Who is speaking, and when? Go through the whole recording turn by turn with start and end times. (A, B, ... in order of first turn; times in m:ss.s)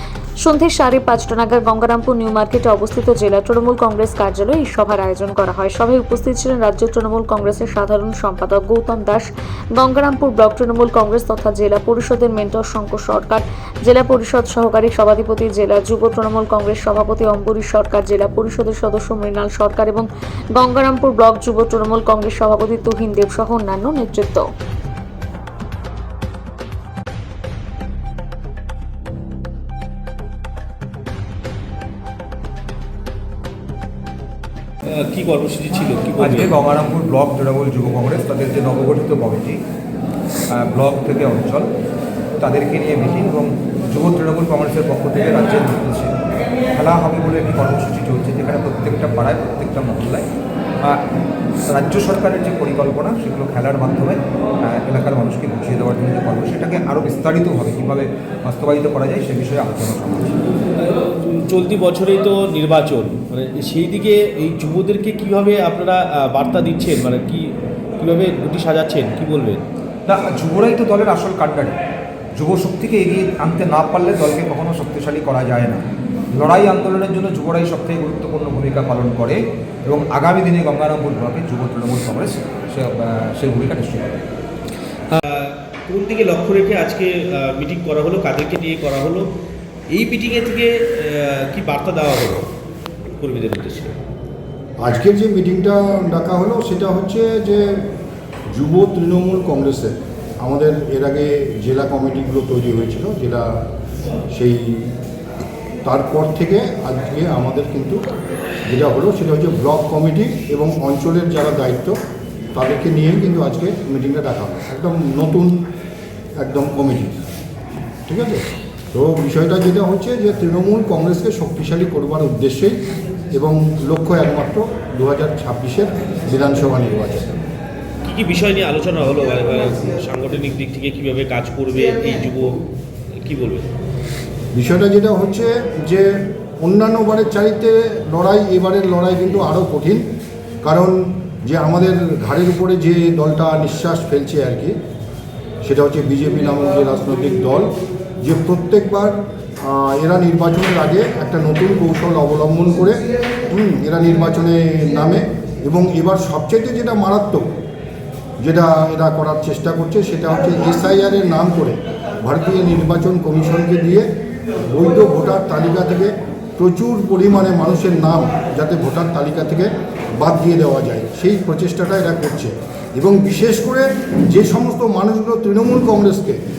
0:00.4-0:24.5 A
0:34.9-0:36.6 B
0:36.2-0:39.6 C
0:40.5-0:41.7 C
0:42.4-0:46.1 C
0:46.7-0:50.2 C
0:51.7-1:00.3 C
1:00.8-1:09.6 B
1:10.0-1:11.7 C
1:12.3-1:15.8 C
1:16.4-1:24.2 C
1:25.1-1:29.3 B
1:29.9-1:32.5 B
1:33.2-1:34.0 B
1:34.8-1:37.8 D
1:38.5-1:43.5 D
1:44.3-1:44.9 D
1:45.8-1:48.0 D
1:48.7-1:52.0 D
1:52.5-1:55.6 D
1:56.4-1:57.2 D
1:58.1-2:02.8 D
2:03.3-2:07.3 D
2:08.0-2:12.6 B
2:13.1-2:13.7 B
2:14.5-2:20.0 D
2:20.6-2:24.7 D
2:25.6-2:27.7 D
2:28.2-2:37.5 D
2:38.4-2:56.4 D